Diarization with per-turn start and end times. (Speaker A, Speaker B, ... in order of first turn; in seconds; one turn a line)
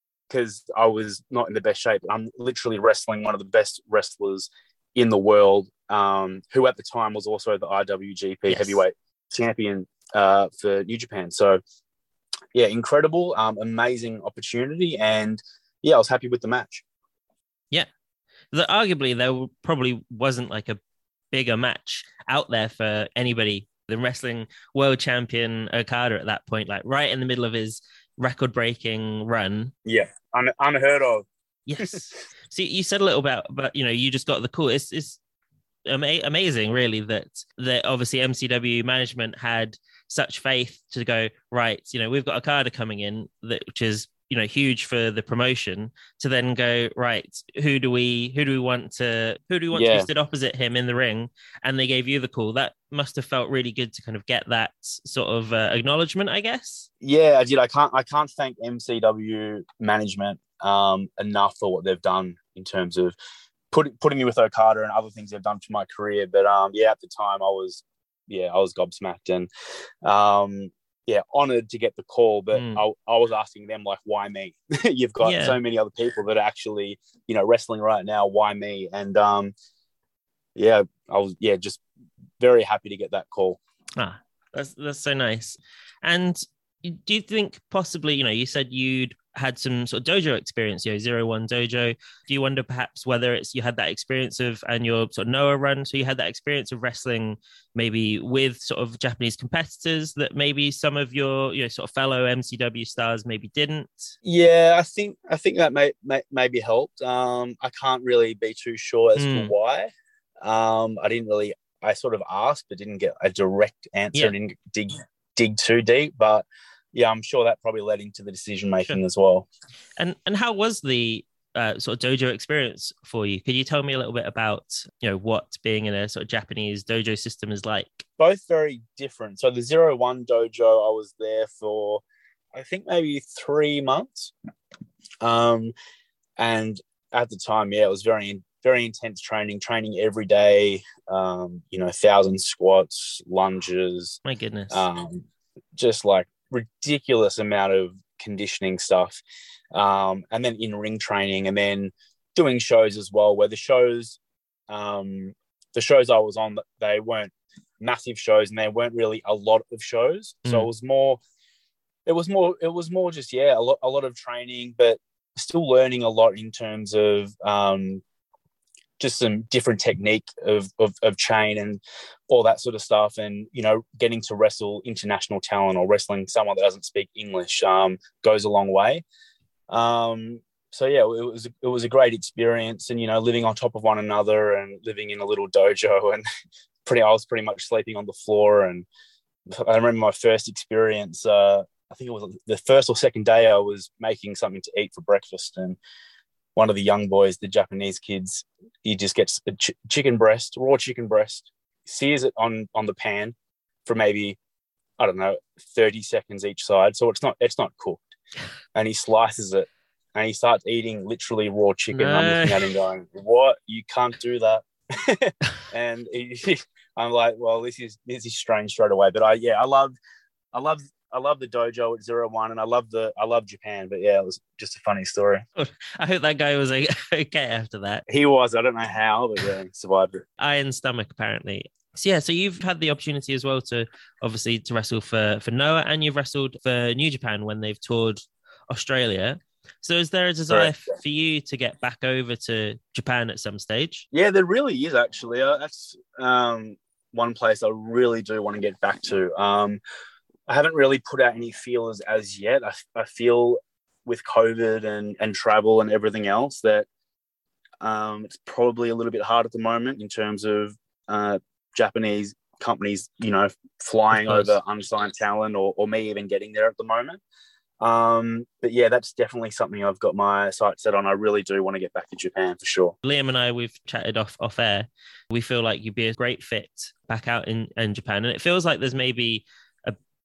Speaker A: 0.3-11.6
Speaker B: 8.5-8.8
Speaker A: 12.5-16.8
Speaker B: 18.5-20.8
Speaker B: 21.3-29.7
Speaker A: 29.9-31.3
Speaker B: 31.7-35.2
Speaker B: 35.9-56.9
Speaker A: 49.7-50.1
Speaker A: 57.0-63.1
Speaker A: 63.7-69.5
Speaker A: 70.0-79.5
Speaker B: 72.5-72.8
Speaker B: 75.2-75.6
Speaker A: 80.5-81.8
Speaker A: 82.4-83.6
Speaker B: 84.0-104.2
Speaker A: 104.2-119.5
Speaker B: 109.2-109.5
Speaker B: 120.0-128.1
Speaker A: 128.2-132.0
Speaker A: 132.5-134.3
Speaker A: 135.2-135.7
Speaker A: 136.4-144.2
Speaker B: 144.2-144.9
Speaker A: 144.7-145.3
Speaker A: 145.8-149.2
Speaker A: 149.7-154.2
Speaker A: 154.7-161.2
Speaker A: 162.1-168.0
Speaker A: 169.0-179.0
Speaker A: 179.7-186.2
Speaker A: 186.9-188.9
Speaker A: 189.5-195.8
Speaker A: 196.6-203.3
Speaker A: 203.9-204.4
Speaker A: 205.0-208.1
Speaker A: 208.8-219.9
Speaker B: 211.9-212.7
Speaker A: 220.5-225.4
Speaker B: 225.6-228.0
Speaker A: 228.1-230.2
Speaker B: 230.4-244.1
Speaker A: 240.5-240.8
Speaker A: 244.1-249.8
Speaker A: 250.5-256.9
Speaker A: 257.8-267.2
Speaker B: 264.1-264.6
Speaker A: 267.8-272.9
Speaker B: 273.0-280.0